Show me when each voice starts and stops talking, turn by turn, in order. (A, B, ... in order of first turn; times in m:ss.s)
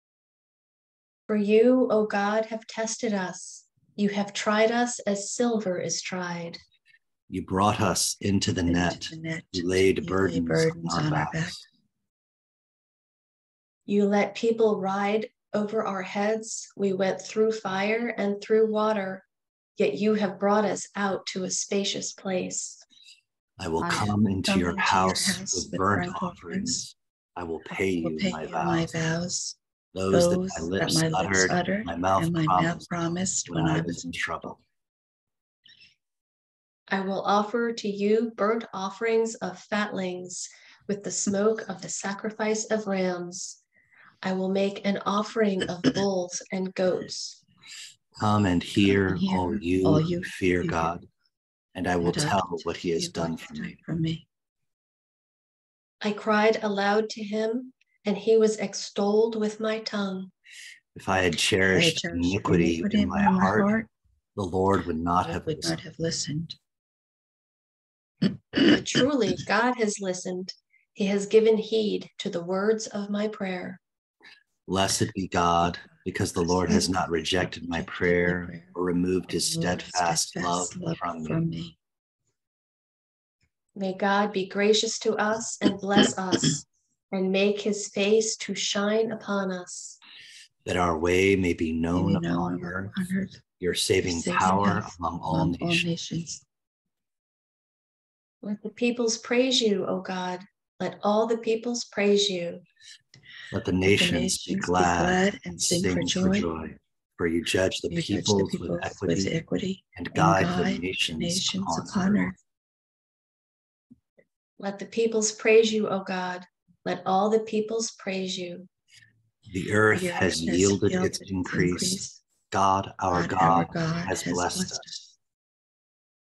0:01.3-0:06.6 A
0:07.3-0:11.6 B
0:08.7-0:11.6 C
0:13.9-0:19.3 A
0:19.8-0:22.8 A
0:23.6-0:28.9 B
0:23.8-0:26.8 C
0:28.0-0:29.6 C
0:29.9-0:32.8 B
0:30.1-0:34.5 C
0:33.5-0:34.6 B
0:36.9-0:43.6 A
0:44.2-0:47.4 A
0:48.2-0:51.1 B
0:48.8-0:50.9 C
0:51.8-0:53.8 B
0:52.0-0:54.3 C
0:56.0-1:00.3 A
1:01.0-1:03.7 B
1:01.7-1:03.9 C
1:04.4-1:05.8 B
1:05.2-1:06.6 C
1:08.6-1:13.8 A
1:14.7-1:21.4 B
1:17.5-1:18.8 C
1:19.3-1:21.8 C
1:23.8-1:30.0 A
1:30.6-1:32.9 B
1:32.0-1:33.4 C
1:33.6-1:35.9 B
1:34.0-1:36.4 C
1:38.4-1:42.6 A
1:43.5-1:49.4 B
1:44.0-1:46.5 C
1:47.9-1:52.4 C
1:50.0-1:52.3 B
1:54.6-1:58.7 A
1:59.5-2:05.0 B
1:59.9-2:02.2 C
2:03.1-2:05.1 C